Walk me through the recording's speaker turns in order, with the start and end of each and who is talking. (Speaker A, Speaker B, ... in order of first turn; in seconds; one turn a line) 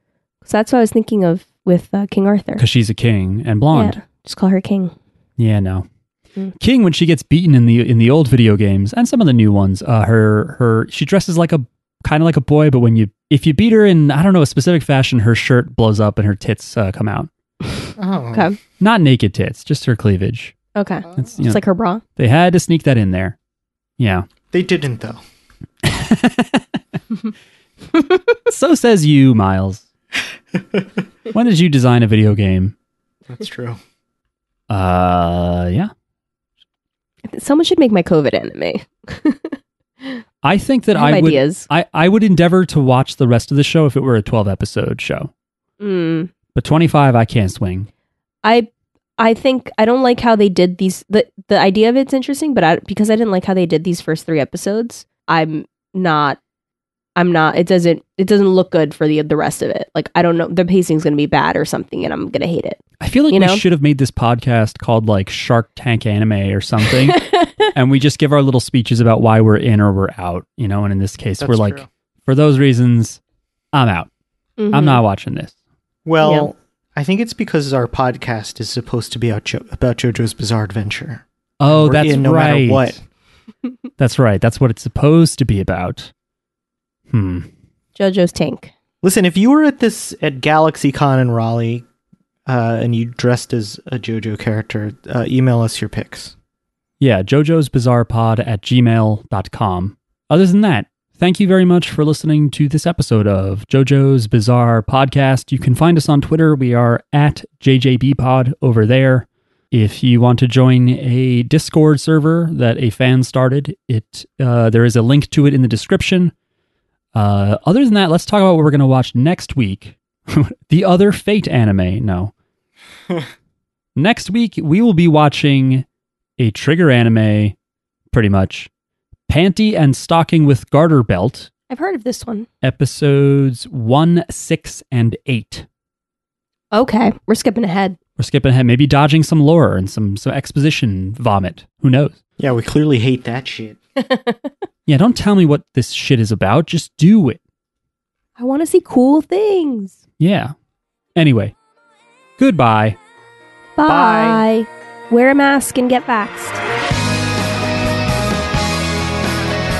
Speaker A: 0.4-2.6
Speaker B: 2.6-4.0
Speaker A: 3.7-4.9
Speaker B: 5.4-5.9
Speaker B: 6.6-17.3
Speaker C: 18.0-18.5
Speaker B: 18.8-20.5
Speaker A: 20.7-22.0
Speaker B: 21.1-21.6
Speaker B: 22.1-23.3
Speaker B: 24.0-24.3
Speaker C: 24.5-25.2
Speaker B: 25.8-26.8
Speaker B: 28.4-29.8
Speaker B: 31.3-32.7
Speaker C: 33.3-33.8
Speaker B: 34.7-35.9
Speaker A: 37.3-40.2
Speaker B: 40.4-45.3
Speaker A: 40.9-41.7
Speaker A: 45.8-46.3
Speaker B: 46.5-47.9
Speaker A: 48.4-56.4
Speaker A: 57.1-63.6
Speaker B: 63.0-73.2
Speaker A: 66.8-67.7
Speaker C: 71.4-71.8
Speaker B: 73.7-74.1
Speaker A: 74.6-75.0
Speaker B: 74.7-75.5
Speaker C: 76.0-83.0
Speaker A: 76.2-76.5
Speaker B: 81.6-83.0
Speaker B: 84.0-86.1
Speaker B: 87.1-87.5
Speaker A: 88.0-88.7
Speaker C: 89.0-91.8
Speaker C: 92.5-96.3
Speaker B: 97.0-116.3
Speaker B: 117.1-122.3
Speaker B: 124.0-125.8
Speaker B: 126.4-127.5
Speaker B: 128.1-128.7
Speaker B: 129.3-131.5
Speaker A: 131.7-132.5
Speaker B: 132.6-135.7
Speaker A: 136.7-138.0
Speaker B: 138.2-142.2
Speaker C: 142.4-143.8
Speaker A: 144.0-144.5
Speaker B: 144.9-147.4
Speaker A: 148.4-150.0
Speaker B: 150.2-150.5
Speaker B: 151.2-151.5
Speaker B: 152.4-153.0
Speaker A: 153.8-156.6
Speaker C: 153.8-154.4